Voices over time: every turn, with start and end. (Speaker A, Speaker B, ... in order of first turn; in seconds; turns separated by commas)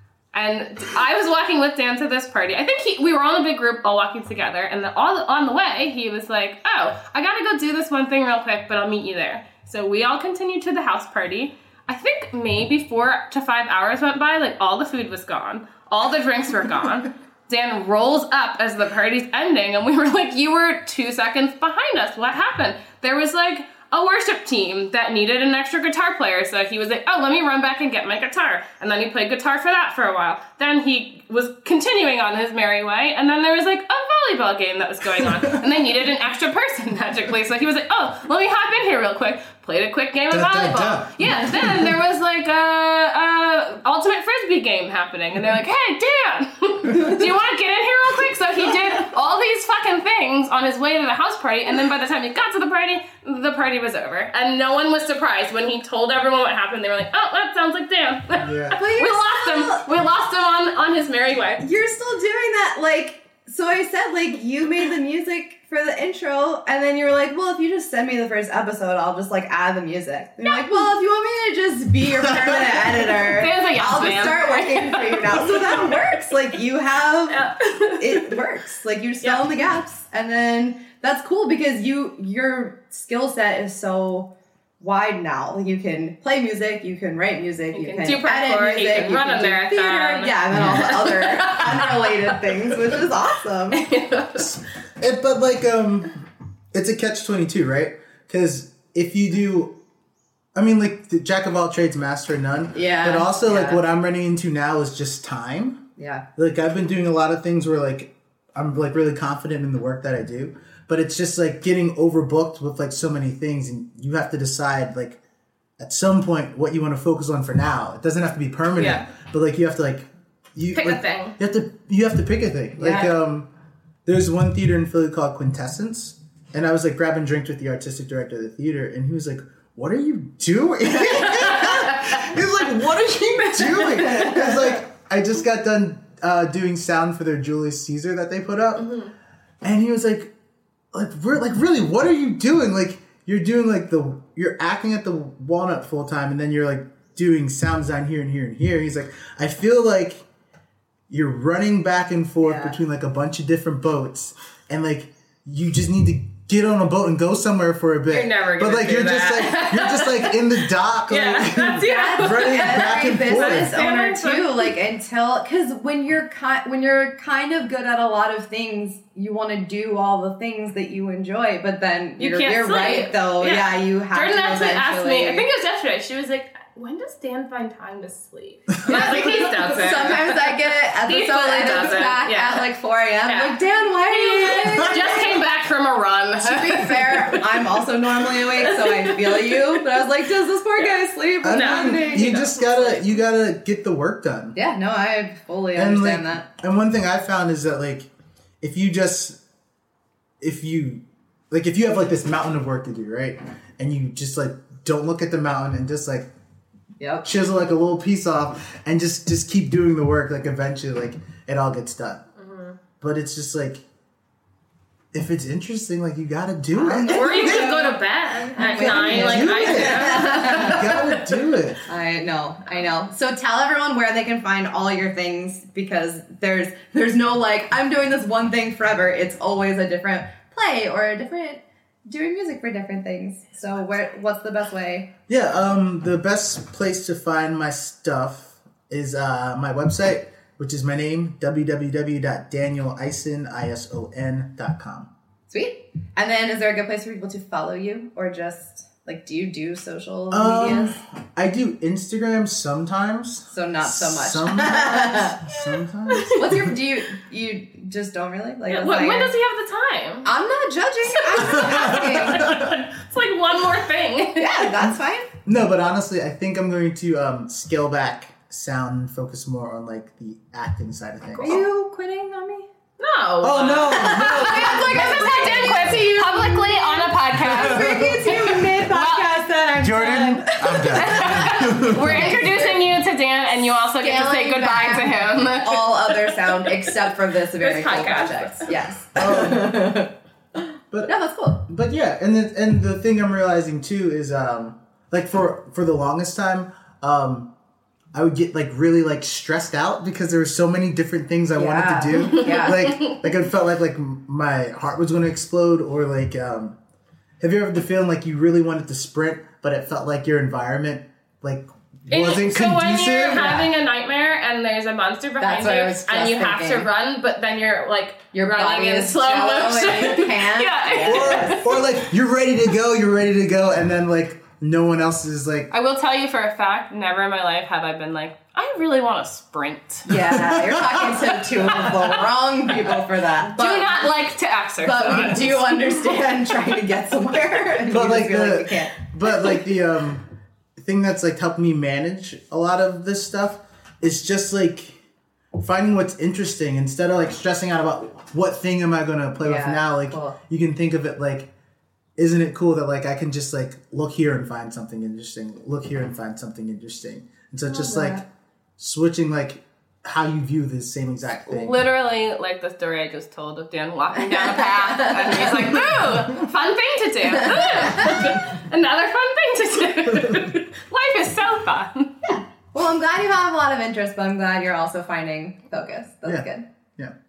Speaker A: 0.3-61.6, Speaker B: 35.2-35.6, Speaker B: 40.3-42.0, Speaker B: 58.4-58.8, Speaker C: 58.7-59.9, Speaker C: 61.6-93.8, Speaker A: 73.1-76.1, Speaker A: 77.3-78.4, Speaker A: 87.7-92.3, Speaker B: 90.5-91.0, Speaker A: 93.7-94.5, Speaker B: 94.3-99.8, Speaker B: 100.5-105.8, Speaker C: 102.7-103.8, Speaker C: 106.0-106.2, Speaker B: 106.3-115.2, Speaker B: 115.8-123.5, Speaker A: 118.8-119.0, Speaker A: 120.7-121.4, Speaker C: 122.8-123.1, Speaker B: 124.0-138.9, Speaker A: 130.9-132.3, Speaker A: 133.6-134.4, Speaker A: 138.8-139.1, Speaker B: 139.6-140.3, Speaker B: 140.9-150.2, Speaker B: 151.1-163.8, Speaker C: 152.4-152.8, Speaker A: 158.1-164.7, Speaker C: 161.7-175.5, Speaker A: 172.2-182.7, Speaker C: 178.8-185.3, Speaker B: 179.0-179.3, Speaker A: 183.2-189.8, Speaker C: 186.4-192.4, Speaker A: 190.8-193.2, Speaker B: 191.4-194.6, Speaker C: 194.5-196.4, Speaker B: 195.7-198.1, Speaker B: 198.6-199.4, Speaker B: 200.4-206.3, Speaker C: 207.0-207.3, Speaker B: 207.2-212.2, Speaker A: 212.4-212.8, Speaker B: 213.0-213.8, Speaker B: 215.1-217.8, Speaker C: 216.7-220.9, Speaker A: 217.1-221.3, Speaker B: 218.7-221.8, Speaker C: 221.9-235.1, Speaker B: 235.3-245.1, Speaker C: 245.5-250.9, Speaker B: 250.3-256.7, Speaker C: 253.5-255.5, Speaker A: 256.1-256.7, Speaker C: 256.4-259.3, Speaker A: 258.7-260.3, Speaker C: 260.2-262.5, Speaker A: 261.2-264.7, Speaker B: 261.5-262.8, Speaker C: 264.4-265.3, Speaker B: 265.4-271.6, Speaker C: 271.3-272.7, Speaker A: 273.0-279.4, Speaker B: 273.4-275.8, Speaker C: 273.9-282.8, Speaker B: 277.3-278.6, Speaker B: 279.8-282.5, Speaker A: 280.5-286.9, Speaker C: 284.0-290.1, Speaker A: 287.6-288.7, Speaker B: 289.1-290.0, Speaker B: 290.9-297.5, Speaker C: 291.1-291.6, Speaker B: 298.1-306.8, Speaker C: 301.5-302.8, Speaker A: 302.4-303.1, Speaker B: 307.4-313.6, Speaker A: 312.1-321.8, Speaker C: 313.3-313.7, Speaker C: 315.4-316.9, Speaker C: 318.3-321.6, Speaker B: 321.0-325.7, Speaker A: 325.7-330.1, Speaker C: 330.1-334.1, Speaker B: 330.2-331.3, Speaker A: 333.4-336.0, Speaker C: 334.8-338.9, Speaker B: 337.9-340.2, Speaker B: 340.8-345.0, Speaker B: 345.6-351.5, Speaker C: 349.4-350.4, Speaker B: 352.2-358.2, Speaker C: 357.7-358.2, Speaker B: 358.8-361.8, Speaker A: 361.5-372.2, Speaker C: 364.2-365.8, Speaker C: 367.4-368.1, Speaker C: 372.2-376.6, Speaker B: 376.2-377.1